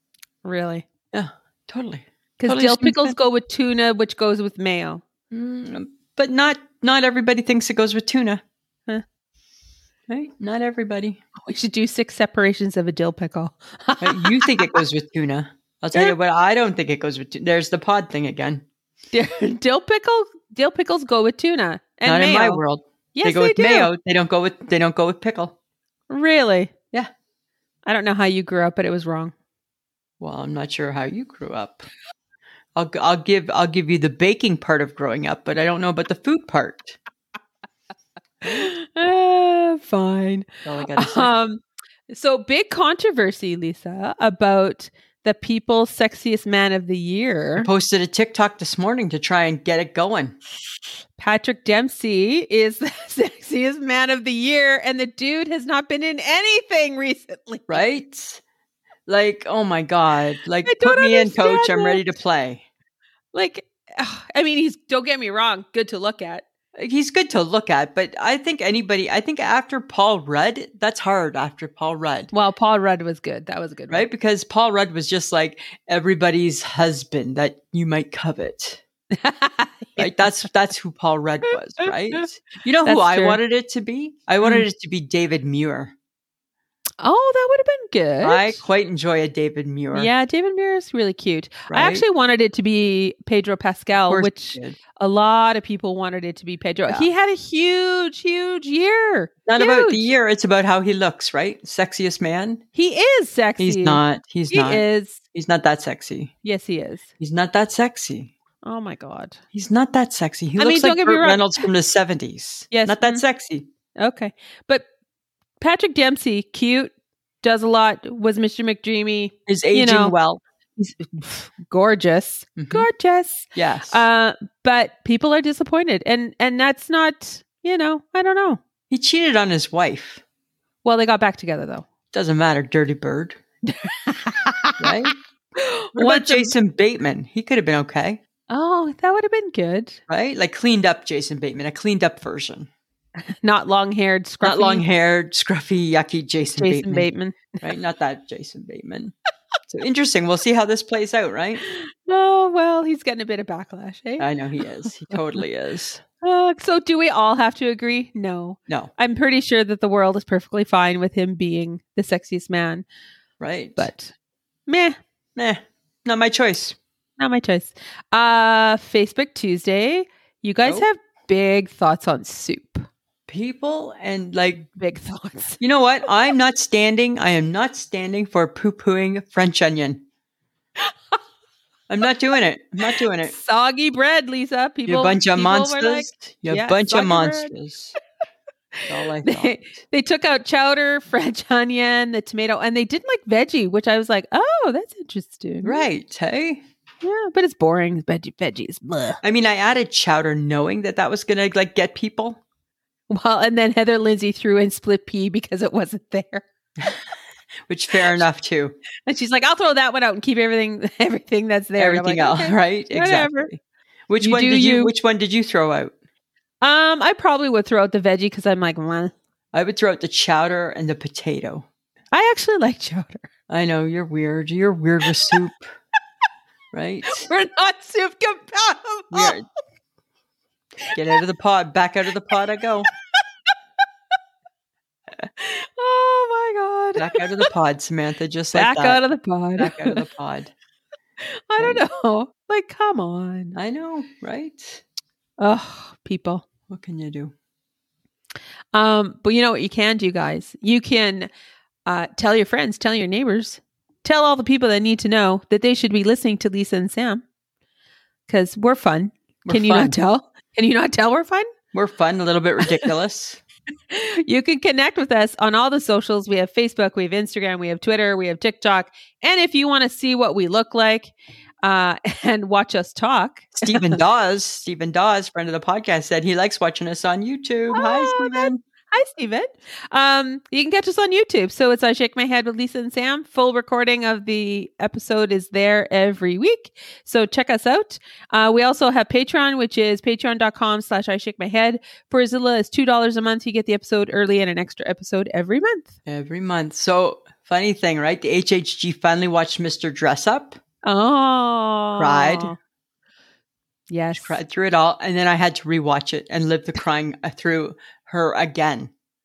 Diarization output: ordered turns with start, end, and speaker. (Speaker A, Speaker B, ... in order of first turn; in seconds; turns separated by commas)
Speaker A: 0.4-0.8, Speaker B: 1.1-3.1, Speaker A: 2.4-5.0, Speaker B: 5.3-8.4, Speaker B: 10.1-11.2, Speaker A: 11.4-14.8, Speaker B: 14.0-18.6, Speaker A: 19.1-22.6, Speaker B: 22.1-25.5, Speaker A: 23.1-23.9, Speaker A: 26.1-26.7, Speaker A: 27.8-29.3, Speaker B: 30.2-31.9, Speaker B: 32.7-37.0, Speaker B: 38.4-38.7, Speaker A: 38.4-47.7, Speaker B: 40.6-41.3, Speaker B: 47.6-50.4, Speaker A: 51.2-57.9, Speaker B: 57.7-58.4, Speaker B: 59.1-62.6, Speaker A: 60.6-62.0, Speaker A: 63.3-66.4, Speaker B: 66.8-72.3, Speaker A: 72.3-74.0, Speaker B: 73.9-78.8, Speaker A: 79.1-80.3, Speaker B: 80.0-85.9, Speaker A: 81.8-82.2, Speaker A: 82.8-83.4, Speaker A: 87.0-88.6, Speaker B: 88.2-90.1, Speaker A: 89.9-100.1, Speaker B: 91.7-92.0, Speaker B: 94.0-94.8, Speaker B: 99.5-102.6, Speaker A: 102.7-105.2, Speaker B: 103.6-106.3, Speaker A: 106.4-107.0, Speaker B: 107.2-108.3, Speaker A: 108.6-109.4, Speaker B: 109.5-113.7, Speaker A: 110.6-111.7, Speaker A: 112.7-113.2, Speaker A: 114.0-114.8, Speaker A: 115.6-120.1, Speaker B: 119.5-120.4, Speaker A: 120.8-128.6, Speaker B: 122.6-122.9, Speaker B: 123.5-124.0, Speaker B: 128.9-130.2, Speaker A: 130.8-131.8, Speaker B: 132.1-133.4, Speaker A: 133.6-136.5, Speaker B: 134.8-135.1, Speaker B: 135.9-138.2, Speaker A: 138.5-140.0, Speaker B: 140.1-142.7, Speaker A: 143.2-144.8, Speaker B: 144.4-147.1, Speaker A: 146.6-147.7, Speaker B: 147.6-149.1, Speaker B: 149.7-151.6, Speaker A: 151.6-154.3, Speaker B: 154.2-156.0, Speaker A: 154.8-155.4, Speaker A: 156.2-162.8, Speaker B: 163.4-163.9, Speaker A: 163.8-164.1, Speaker A: 164.7-165.0, Speaker B: 165.3-166.8, Speaker A: 167.2-172.9, Speaker B: 173.3-174.7, Speaker A: 174.8-175.6, Speaker B: 175.6-180.0, Speaker A: 180.8-181.2, Speaker B: 181.9-183.3, Speaker A: 182.9-187.5, Speaker B: 184.8-187.9, Speaker B: 188.9-189.8, Speaker A: 189.2-195.8, Speaker B: 195.6-196.6, Speaker A: 197.0-199.2, Speaker B: 199.2-202.4, Speaker A: 203.1-206.4, Speaker B: 207.7-208.8, Speaker A: 209.1-213.5, Speaker B: 211.8-215.9, Speaker A: 214.2-214.9, Speaker A: 216.6-219.1, Speaker B: 219.5-221.7, Speaker A: 222.1-223.3, Speaker B: 223.5-225.7, Speaker B: 226.7-227.3, Speaker A: 227.1-229.3, Speaker B: 229.1-229.4, Speaker B: 230.9-232.9, Speaker A: 233.1-233.5, Speaker A: 235.4-237.5, Speaker B: 236.9-239.0, Speaker A: 238.5-240.0, Speaker B: 239.6-240.5, Speaker A: 241.2-243.6, Speaker B: 241.6-241.8, Speaker B: 243.5-244.8, Speaker A: 245.4-246.4, Speaker B: 246.7-247.3, Speaker A: 248.7-251.3, Speaker A: 251.8-257.2, Speaker A: 258.3-261.5, Speaker B: 259.4-259.9, Speaker B: 261.7-263.4, Speaker A: 263.9-274.0, Speaker B: 273.5-278.6, Speaker A: 277.7-295.9, Speaker B: 296.1-300.6, Speaker A: 300.8-302.6, Speaker B: 302.0-302.5, Speaker A: 303.9-304.4, Speaker B: 304.1-308.9